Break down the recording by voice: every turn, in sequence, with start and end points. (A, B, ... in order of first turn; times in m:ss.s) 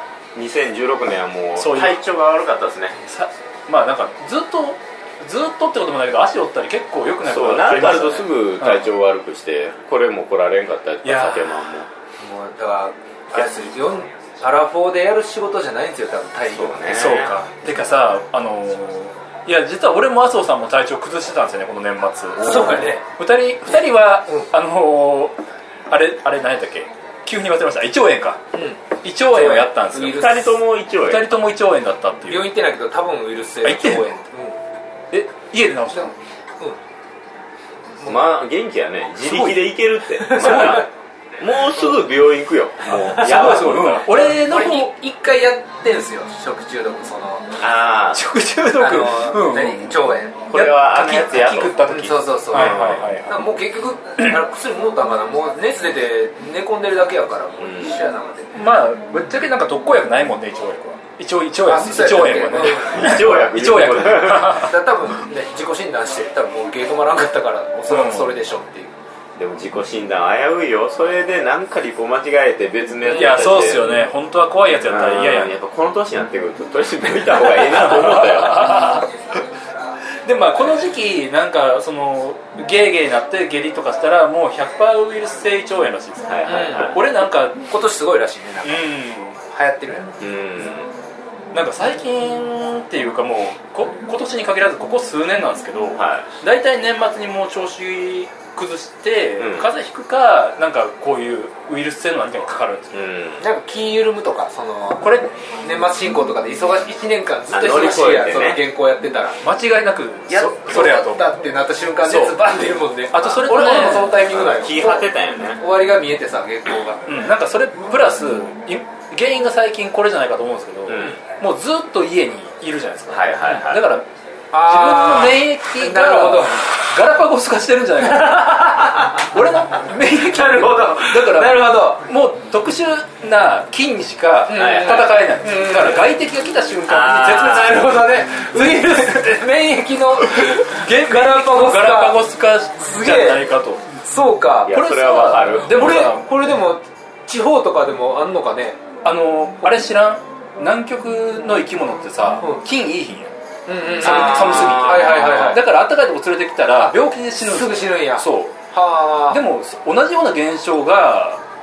0:00.3-0:03.0 A
0:01.6-0:01.9 B
0:03.0-0:08.9 B
0:07.2-0:11.9 A
0:11.0-0:11.5 B
0:12.2-0:16.9 C
0:16.5-0:17.3 A
0:16.9-0:25.4 B
0:22.4-0:23.0 C
0:25.9-0:28.4 B
0:28.5-0:30.5 C
0:29.0-0:30.4 B
0:30.0-0:31.4 A
0:31.0-0:32.5 B
0:32.3-0:34.6 C
0:33.6-0:34.0 B
0:35.1-0:36.1 B
0:35.9-0:36.8 C
0:38.0-0:40.9 A
0:40.2-0:40.8 C
0:40.4-0:40.8 B
0:41.4-0:44.1 A
0:43.0-0:44.9 B
0:43.1-0:47.5 C
0:47.6-0:48.3 A
0:48.1-0:53.5 B
0:48.7-0:50.4 C
0:50.5-0:51.9 A
0:51.8-0:58.5 C
0:52.5-0:53.1 A
0:57.6-0:58.0 A
0:58.5-1:04.7 B
1:01.6-1:03.2 C
1:02.7-1:04.7 A
1:04.4-1:08.9 C
1:07.9-1:08.4 B
1:09.4-1:14.0 A
1:13.1-1:15.5 B
1:14.8-1:19.0 A
1:17.5-1:19.1 B
1:20.2-1:27.7 B
1:26.3-1:27.0 A
1:26.4-1:27.0 C
1:27.7-1:30.1 C
1:28.6-1:29.4 B
1:30.2-1:30.9 A
1:31.5-1:43.0 B
1:36.0-1:36.3 A
1:39.4-1:39.7 A
1:42.9-1:43.4 A
1:43.4-1:45.1 C
1:45.0-1:45.3 B
1:45.6-1:49.4 C
1:47.5-1:48.6 A
1:49.4-1:51.3 B
1:50.3-1:57.1 C
1:52.0-1:52.4 B
1:53.1-1:54.2 B
1:54.2-1:55.6 A
1:57.1-2:04.0 B
2:00.9-2:01.2 A
2:03.1-2:03.9 A
2:04.5-2:06.8 C
2:04.6-2:19.4 B
2:08.1-2:09.2 C
2:10.0-2:12.0 C
2:14.5-2:16.1 C
2:14.5-2:15.1 A
2:16.9-2:17.8 A
2:17.0-2:22.2 C
2:20.3-2:23.9 B
2:22.8-2:23.5 C
2:24.0-2:24.7 C
2:24.6-2:25.9 A
2:24.7-2:26.5 B
2:25.6-2:28.8 C
2:29.0-2:33.3 B
2:33.7-2:35.6 C
2:34.0-2:38.6 B
2:34.0-2:35.5 A
2:36.8-2:39.4 C
2:39.3-2:41.4 B